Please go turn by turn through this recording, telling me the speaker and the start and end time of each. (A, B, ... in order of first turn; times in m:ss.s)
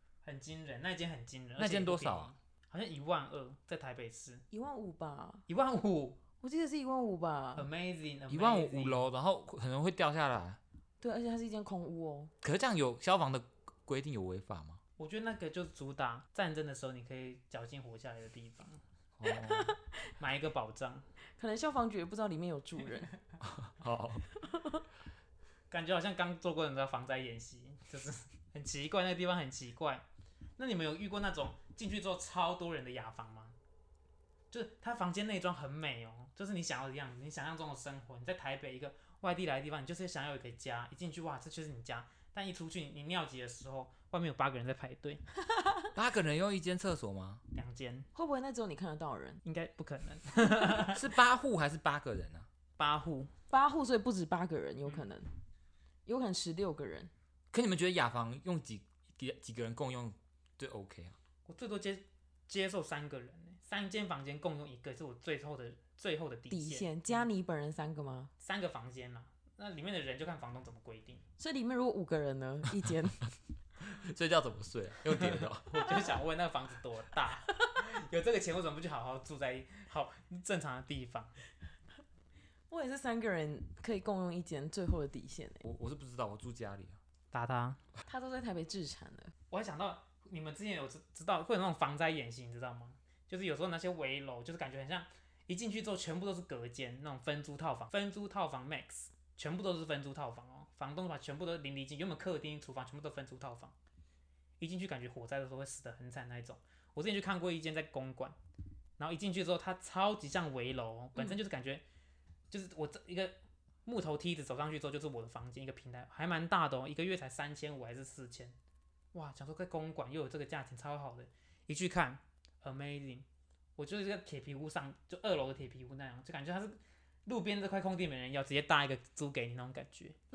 0:00.2-0:04.4 A
0:01.6-0:02.3 B
0:04.5-0:05.4 C
0:05.5-0:06.2 A
0:06.4-0:07.7 C
0:07.6-0:09.0 A
0:08.3-0:10.6 B
0:11.0-0:12.3 C
0:12.4-0:14.8 B
0:15.0-0:18.8 A
0:19.2-0:19.7 B
0:19.5-0:19.8 C
0:20.2-0:21.0 A
0:21.4-0:23.1 C
0:23.4-0:24.2 B
0:24.4-0:24.8 C
0:25.7-0:30.0 A
0:30.6-0:33.6 A
0:34.5-0:45.2 A
0:45.9-0:47.4 B
0:47.5-0:48.1 A
0:48.1-0:49.4 C
0:49.4-0:51.0 A
0:50.9-0:52.5 B
0:52.8-0:53.3 A
0:53.5-0:55.3 C
0:56.0-0:57.1 C
0:57.5-1:01.2 B
1:01.4-1:07.3 A
1:06.5-1:08.3 C
1:08.4-1:11.2 A
1:11.4-1:13.3 C
1:13.9-1:15.8 B
1:15.2-1:21.4 A
1:22.7-1:25.6 C
1:25.6-1:27.0 B
1:27.3-1:27.8 A
1:28.1-1:29.3 C
1:29.5-1:43.7 A
1:44.6-1:48.4 A
1:49.0-1:51.8 A
1:52.5-1:58.6 A
1:59.1-2:03.2 A
2:03.8-2:10.2 A